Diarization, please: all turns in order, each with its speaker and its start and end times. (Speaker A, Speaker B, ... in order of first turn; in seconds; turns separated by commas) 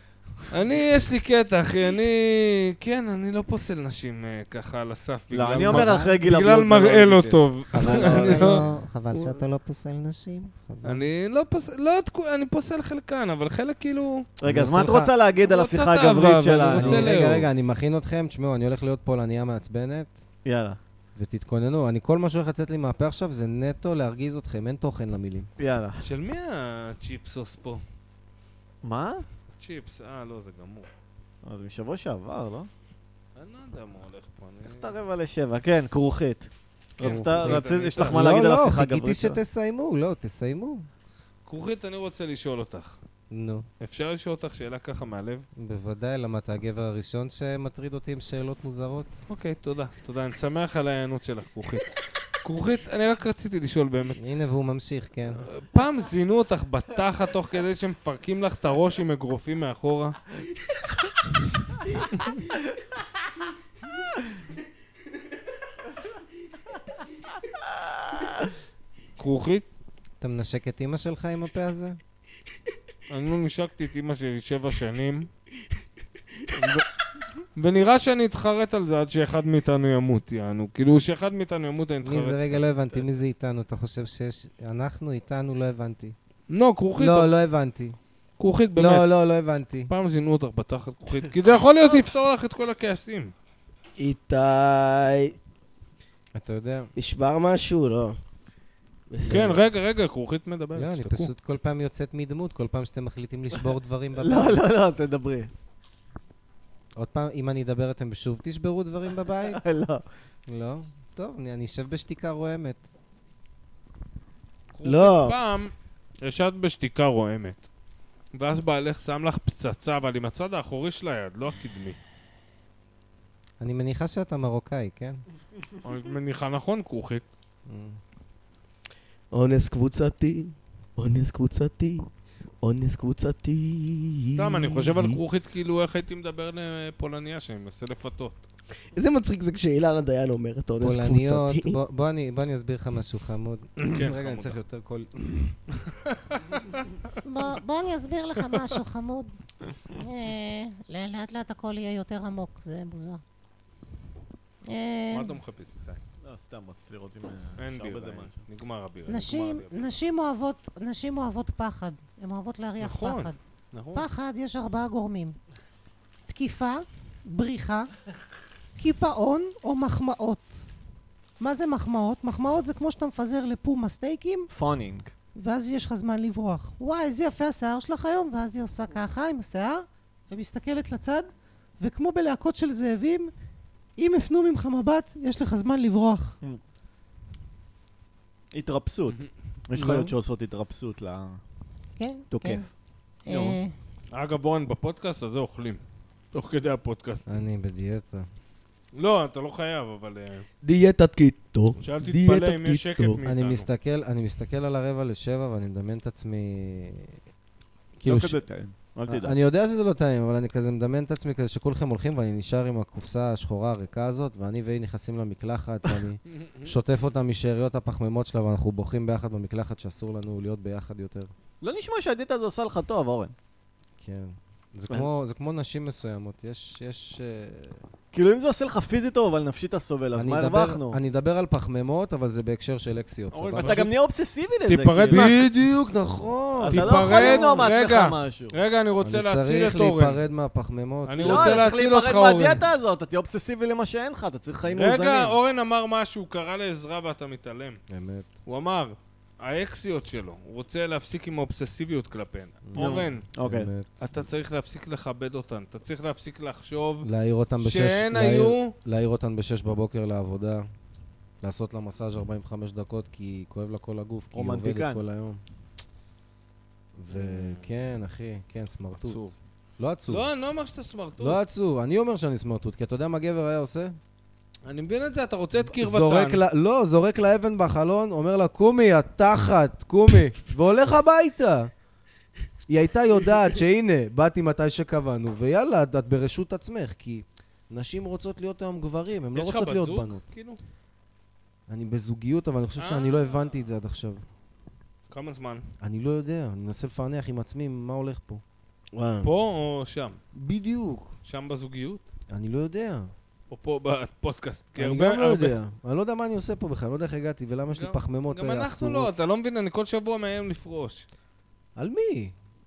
Speaker A: 0.5-8.6, Speaker B: 5.3-8.3, Speaker C: 5.7-6.2, Speaker D: 7.7-8.7, Speaker C: 7.7-11.0, Speaker A: 10.8-14.3, Speaker B: 14.4-17.1, Speaker D: 14.5-15.1, Speaker A: 15.4-17.5, Speaker D: 16.7-20.1, Speaker B: 20.4-20.8, Speaker D: 21.1-25.5, Speaker B: 25.6-26.0, Speaker A: 26.0-27.8, Speaker B: 28.8-29.2, Speaker A: 29.6-30.9, Speaker B: 31.4-32.7, Speaker A: 33.4-34.9, Speaker B: 34.6-39.4, Speaker A: 37.0-38.2, Speaker D: 37.0-40.9, Speaker A: 41.5-43.0, Speaker D: 43.3-43.7, Speaker A: 43.8-45.5, Speaker D: 45.6-49.1, Speaker A: 49.3-54.2, Speaker D: 54.2-55.5, Speaker A: 55.4-60.2, Speaker A: 69.2-69.7, Speaker D: 70.2-72.0, Speaker A: 73.1-75.3, Speaker A: 76.5-76.8, Speaker A: 77.6-82.6, Speaker D: 82.0-86.2, Speaker A: 86.5-87.3, Speaker D: 87.0-88.0, Speaker A: 88.4-89.1, Speaker D: 88.8-89.9, Speaker A: 89.9-93.3, Speaker E: 94.0-95.3, Speaker D: 96.3-96.9, Speaker E: 97.0-98.2, Speaker E: 99.1-99.6, Speaker A: 99.3-101.3, Speaker D: 99.3-99.6, Speaker D: 100.8-104.6, Speaker B: 104.2-105.5, Speaker D: 107.0-109.6, Speaker B: 109.5-110.0, Speaker D: 110.5-112.9, Speaker A: 114.7-117.7, Speaker E: 114.8-115.4, Speaker A: 118.3-122.0, Speaker D: 123.6-125.2, Speaker A: 125.8-127.2, Speaker D: 127.7-128.0, Speaker E: 129.3-132.1, Speaker E: 132.6-135.2, Speaker A: 134.3-138.4, Speaker E: 138.9-141.8, Speaker D: 140.8-145.6, Speaker A: 143.8-144.6, Speaker A: 145.8-146.8, Speaker C: 147.2-149.3, Speaker C: 149.9-153.2, Speaker C: 154.7-155.4, Speaker A: 155.1-156.0, Speaker B: 156.2-158.4, Speaker A: 157.6-159.9, Speaker C: 159.1-163.4, Speaker A: 162.8-164.1, Speaker C: 163.9-165.4, Speaker C: 166.3-167.9, Speaker C: 168.8-170.7, Speaker C: 171.4-174.5, Speaker B: 174.5-175.1, Speaker C: 175.4-181.3, Speaker C: 181.8-183.3, Speaker C: 184.0-186.4, Speaker B: 188.5-191.4, Speaker D: 189.7-190.1, Speaker C: 192.0-192.7, Speaker B: 192.3-192.7, Speaker C: 193.2-193.7, Speaker B: 193.3-193.6, Speaker A: 194.1-195.8, Speaker A: 196.3-197.2, Speaker D: 197.3-198.3, Speaker A: 198.9-200.5, Speaker E: 200.6-203.2, Speaker A: 201.8-203.7, Speaker D: 203.2-207.2, Speaker D: 208.0-208.4, Speaker B: 208.1-209.4, Speaker D: 209.1-221.3, Speaker A: 216.3-216.8, Speaker B: 221.6-223.3, Speaker D: 224.0-227.8, Speaker B: 228.1-231.0, Speaker D: 230.1-233.9, Speaker A: 233.3-233.9, Speaker B: 233.6-235.4, Speaker A: 234.7-235.5, Speaker D: 235.1-237.7, Speaker B: 236.6-238.6, Speaker A: 236.7-240.2, Speaker D: 239.0-241.7, Speaker A: 241.1-242.6, Speaker B: 241.2-245.4, Speaker A: 244.7-247.8, Speaker D: 247.9-248.3, Speaker A: 248.5-253.2, Speaker D: 252.6-254.0, Speaker B: 252.8-253.7, Speaker A: 254.0-257.1, Speaker D: 257.0-260.7, Speaker A: 257.6-258.7, Speaker D: 261.4-265.4, Speaker B: 264.3-265.0, Speaker D: 267.0-270.3, Speaker A: 267.1-267.6, Speaker A: 269.0-269.3, Speaker A: 270.1-271.4, Speaker D: 271.2-274.0, Speaker A: 274.7-276.4, Speaker D: 275.6-281.7, Speaker D: 282.7-290.2, Speaker A: 289.3-290.6, Speaker D: 291.7-294.2, Speaker A: 292.8-293.6, Speaker A: 295.1-295.6, Speaker D: 295.8-298.4, Speaker E: 298.9-299.3, Speaker A: 299.2-300.2, Speaker D: 300.3-301.1, Speaker A: 301.2-302.1, Speaker D: 302.3-303.1, Speaker A: 303.5-305.6, Speaker D: 304.8-309.1, Speaker A: 307.7-311.1, Speaker D: 311.8-312.4